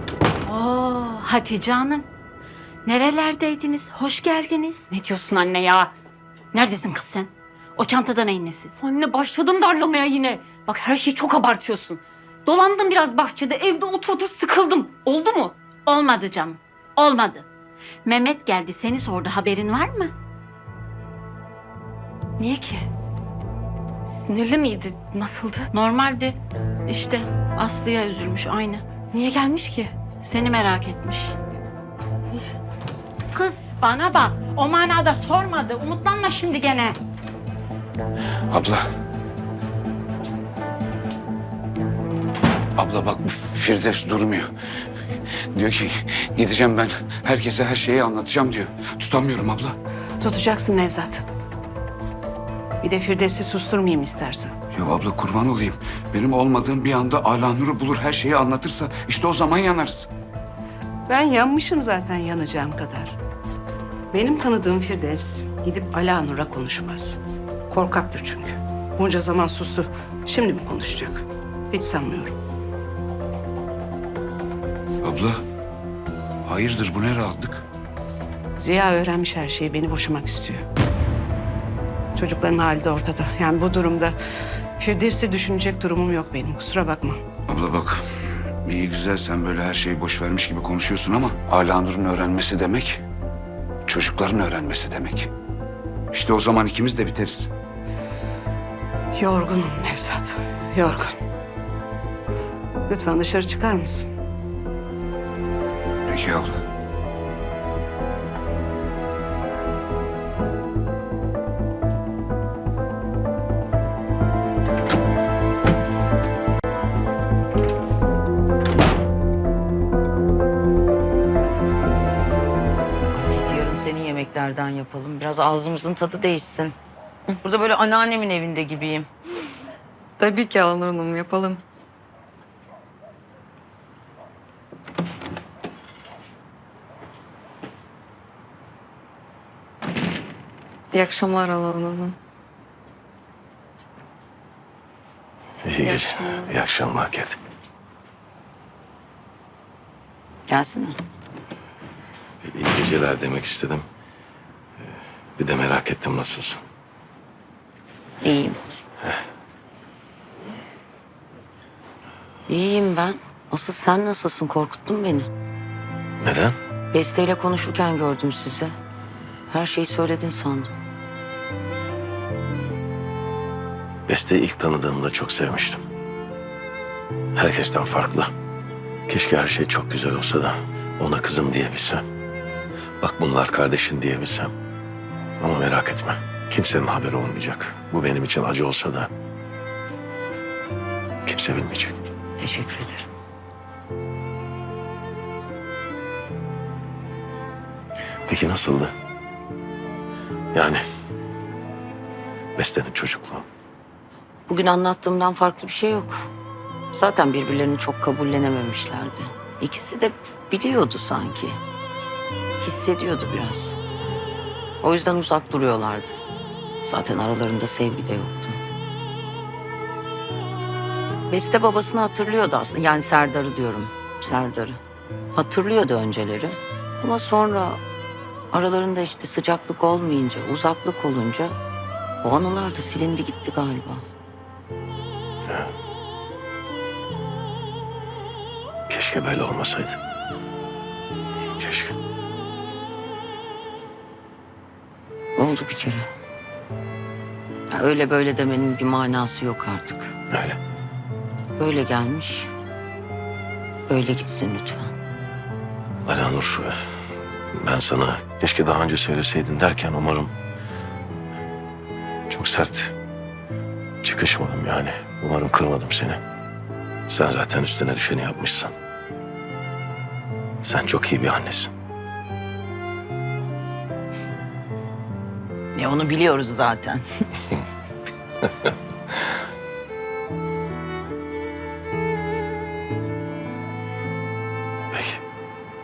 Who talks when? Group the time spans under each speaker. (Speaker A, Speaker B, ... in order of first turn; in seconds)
Speaker A: 0.4-2.1, 2.8-4.9, 6.5-8.7, 15.8-17.4, 18.0-20.1, 25.7-28.8, 30.2-31.4, 33.3-37.0
Speaker B: 4.9-5.9, 8.8-15.5, 22.4-22.8, 24.0-25.7, 29.1-29.9
Speaker C: 38.5-38.8, 42.8-44.5, 45.5-49.8, 54.7-60.1, 75.0-75.4, 76.4-77.6, 87.5-88.0, 88.6-93.0, 93.9-95.3, 96.1-97.5, 106.1-106.5
Speaker D: 50.2-51.2, 52.8-54.5, 61.1-63.2, 64.1-67.2, 67.7-72.3, 78.6-80.6, 82.1-84.2, 84.8-87.2, 99.1-101.1, 102.9-104.1
Speaker E: 123.1-126.8, 127.4-129.1, 150.5-151.0, 158.2-158.6, 162.5-165.3, 166.9-168.7, 169.5-170.8, 192.4-193.1, 204.5-206.2, 206.9-211.6, 212.6-213.8, 214.8-216.2, 216.8-218.6, 221.3-224.8, 225.3-227.8, 228.5-231.5, 232.2-234.0, 245.3-246.1, 247.7-250.1, 251.6-252.5, 253.9-254.9, 275.7-277.0
Speaker F: 130.2-131.6, 140.9-142.2, 145.8-146.5
Speaker G: 145.6-147.4, 152.4-153.8, 155.4-156.6, 166.2-166.6, 174.1-175.8, 177.3-178.3, 179.1-182.0, 183.0-184.5, 185.4-189.1, 191.2-192.0, 198.3-198.9, 200.5-200.8, 202.6-203.4, 238.9-240.0, 241.6-241.9, 250.3-250.6, 256.1-256.7, 257.5-260.3, 262.3-262.9, 264.0-266.2, 267.1-268.7, 270.6-271.7, 284.9-285.2